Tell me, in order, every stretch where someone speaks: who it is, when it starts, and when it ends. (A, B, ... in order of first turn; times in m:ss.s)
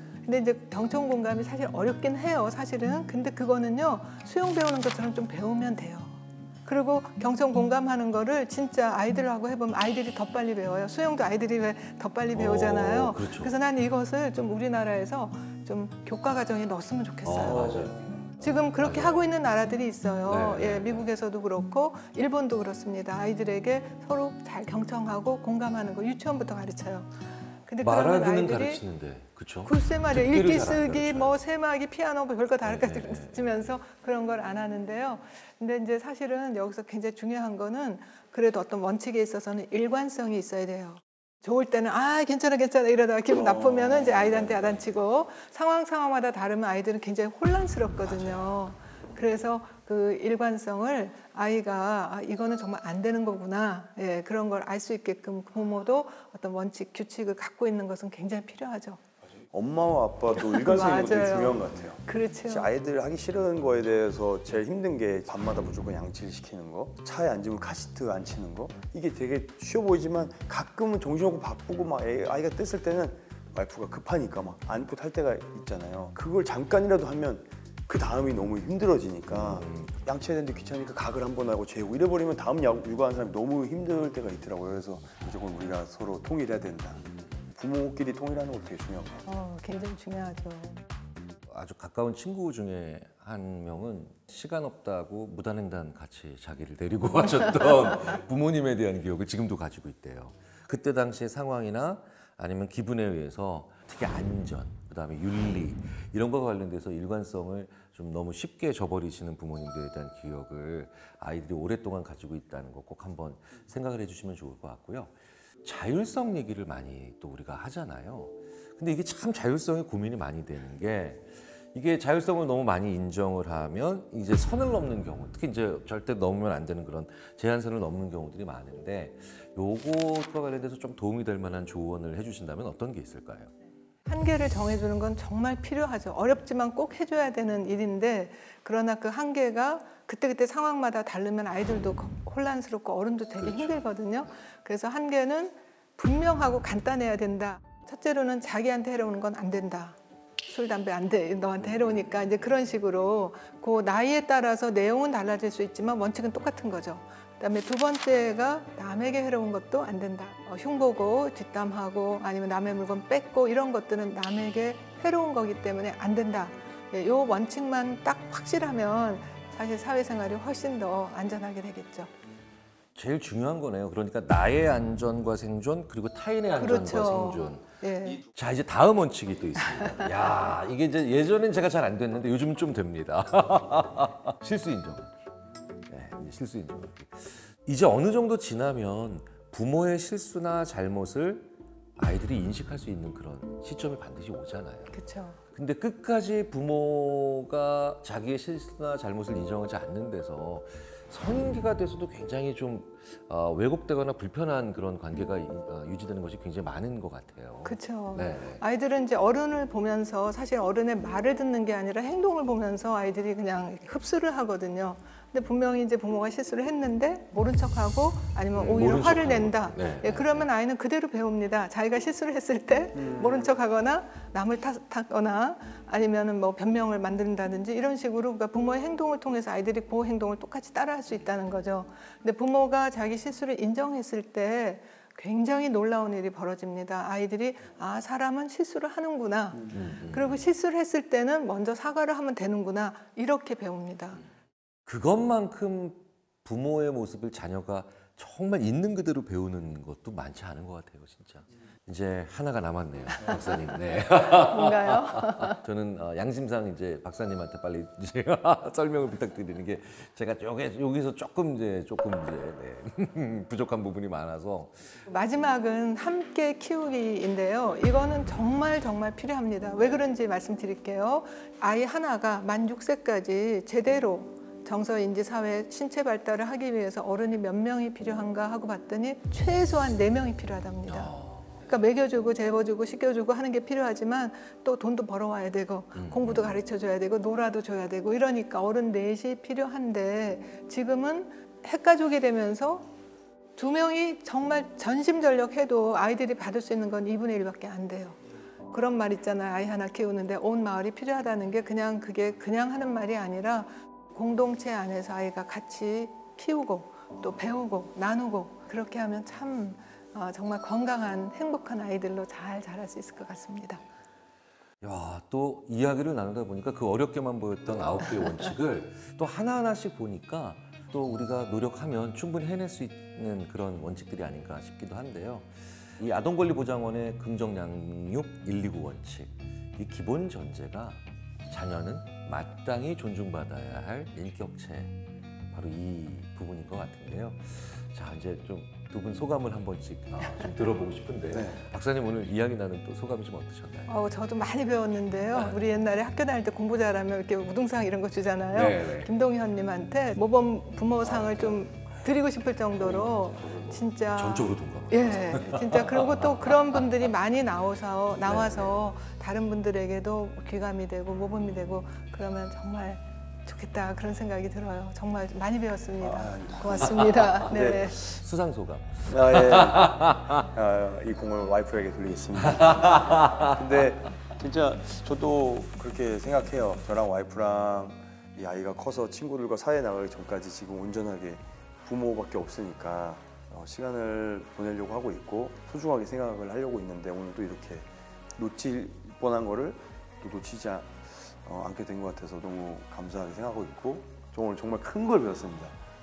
0:00.2-0:28.8 A
0:12.3-0:13.5 B
0:17.2-0:19.3 B
0:20.3-0:21.1 B
0:27.8-0:31.4 B
0:29.6-0:59.0 A
0:32.6-0:33.6 B
0:43.3-0:44.8 C
0:48.1-0:48.5 B
0:59.5-1:27.0 C
1:00.3-1:02.7 A
1:19.3-1:20.0 B
1:27.6-1:29.3 C
1:29.2-1:30.8 A
1:31.5-2:13.5 B
2:14.1-2:52.1 A
2:23.4-2:23.8 B
2:53.0-2:57.6 B
2:56.6-2:58.2 A
2:58.3-3:05.3 B
3:05.9-3:14.9 B
3:14.9-3:15.4 A
3:15.5-3:28.6 B
3:27.6-4:04.2 A
3:38.6-3:40.5 B
3:43.0-3:43.5 C
3:59.7-4:00.4 B
4:04.9-4:24.8 B
4:14.5-4:15.6 A
4:25.1-4:52.9 A
4:40.9-4:41.7 B
4:46.0-4:46.6 B
4:53.6-4:58.2 A
4:58.7-5:13.8 A
5:14.8-5:34.9 B
5:35.5-5:43.9 B
5:41.3-5:41.6 C
5:43.9-6:08.2 A
5:48.5-5:49.1 B
5:51.1-5:51.6 B
5:52.7-5:56.8 B
5:58.2-5:58.8 B
6:06.0-6:08.0 C
6:07.0-6:10.4 B
6:09.1-6:35.8 C
6:12.4-6:13.8 B